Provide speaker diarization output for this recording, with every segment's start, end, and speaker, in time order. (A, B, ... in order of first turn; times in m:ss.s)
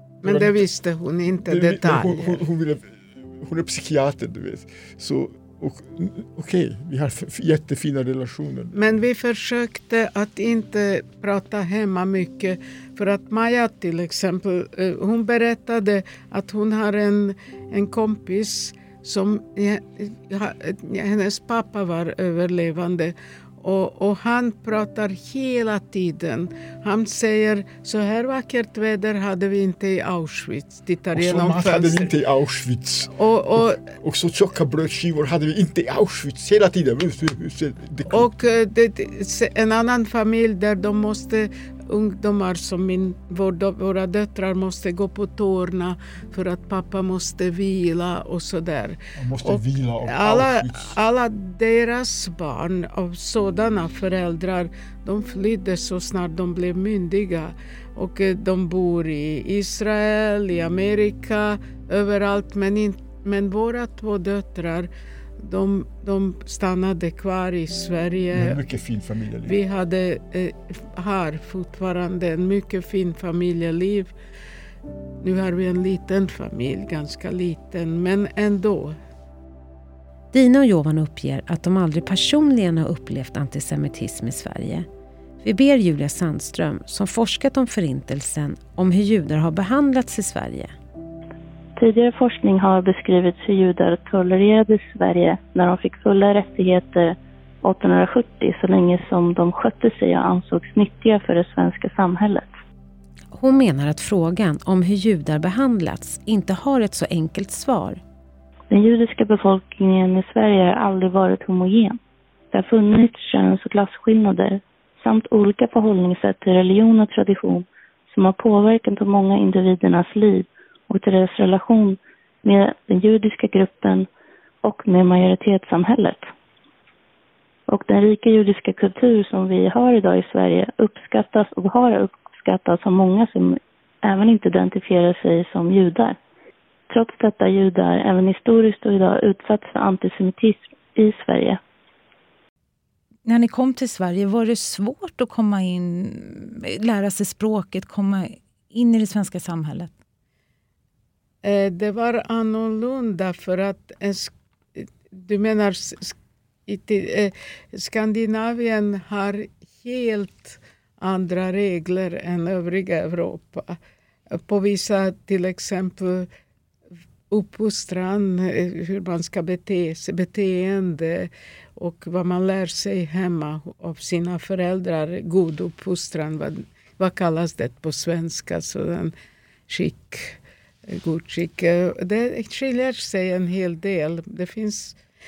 0:00.2-0:00.6 A
0:00.2-0:02.4 B
0:01.4-0:08.9 A
0:08.7-0:32.1 B
0:31.1-0:38.3 A
0:33.2-0:33.8 B
0:38.1-1:04.9 B
0:49.2-0:50.9 A
1:05.4-1:08.6 B
1:08.3-1:09.6 A
1:09.4-1:14.1 B
1:15.2-1:19.0 B
1:20.3-1:24.9 C
1:25.4-1:30.7 C
1:31.8-1:42.5 D
1:43.3-1:48.0 C
1:48.7-1:52.0 D
1:52.5-2:04.1 D
2:04.6-2:06.3 D
2:07.7-2:16.2 D
2:16.9-2:21.6 D
2:23.2-2:29.9 E
2:31.4-2:36.2 B
2:36.7-2:43.8 B
2:44.3-2:46.3 B
2:47.3-2:59.1 B
2:59.7-3:05.0 B